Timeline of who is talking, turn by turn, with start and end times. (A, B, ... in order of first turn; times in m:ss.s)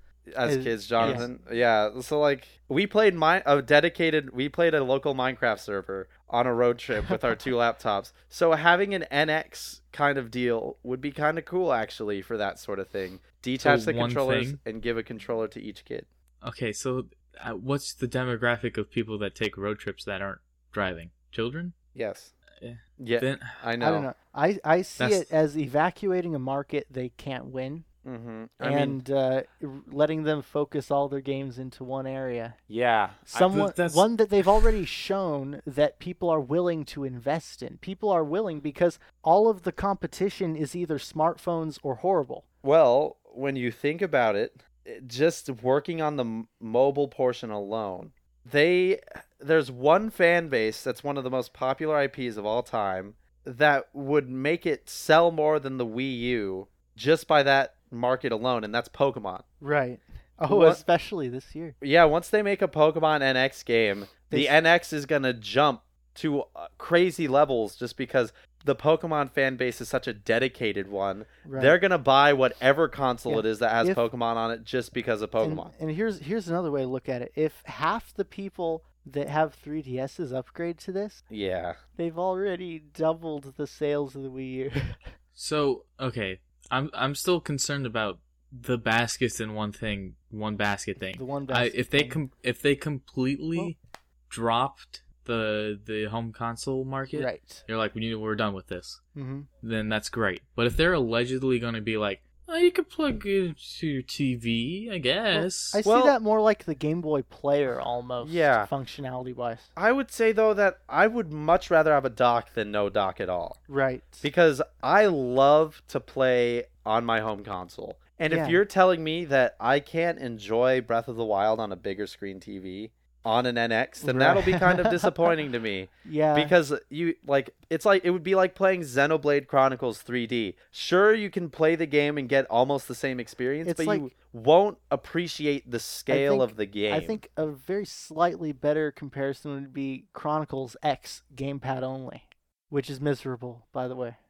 0:00.3-0:16.1 A
0:00.4-0:01.3 B
0:01.0-0:01.3 C
0:13.6-0:14.6 C
0:16.4-0:21.7 C
0:21.9-0:22.3 A
0:22.6-0:23.6 C
0:23.0-0:24.1 A
0:23.8-0:27.8 B
0:25.0-0:25.3 A
0:28.0-0:29.0 A
0:28.6-0:32.6 B
0:32.7-0:33.3 A
0:33.3-0:42.4 B
0:33.3-0:34.8 C
0:42.6-0:59.4 A
0:59.6-1:01.8 B
1:00.5-1:00.8 A
1:01.8-1:15.7 A
1:11.4-1:11.8 B
1:13.3-1:14.0 B
1:15.4-1:21.2 B
1:21.3-1:21.8 A
1:22.0-1:25.1 B
1:25.4-1:33.8 C
1:31.2-1:32.2 B
1:34.3-1:39.0 C
1:37.1-1:37.6 B
1:39.1-1:39.5 B
1:39.6-1:45.8 C
1:45.3-1:49.7 B
1:45.8-1:46.2 A
1:48.2-1:48.7 A
1:49.8-1:53.6 A
1:53.7-1:54.3 B
1:54.2-2:17.2 A
1:58.3-1:58.6 B
2:04.0-2:05.1 B
2:06.0-2:06.5 B
2:13.6-2:14.1 B
2:16.1-2:24.2 B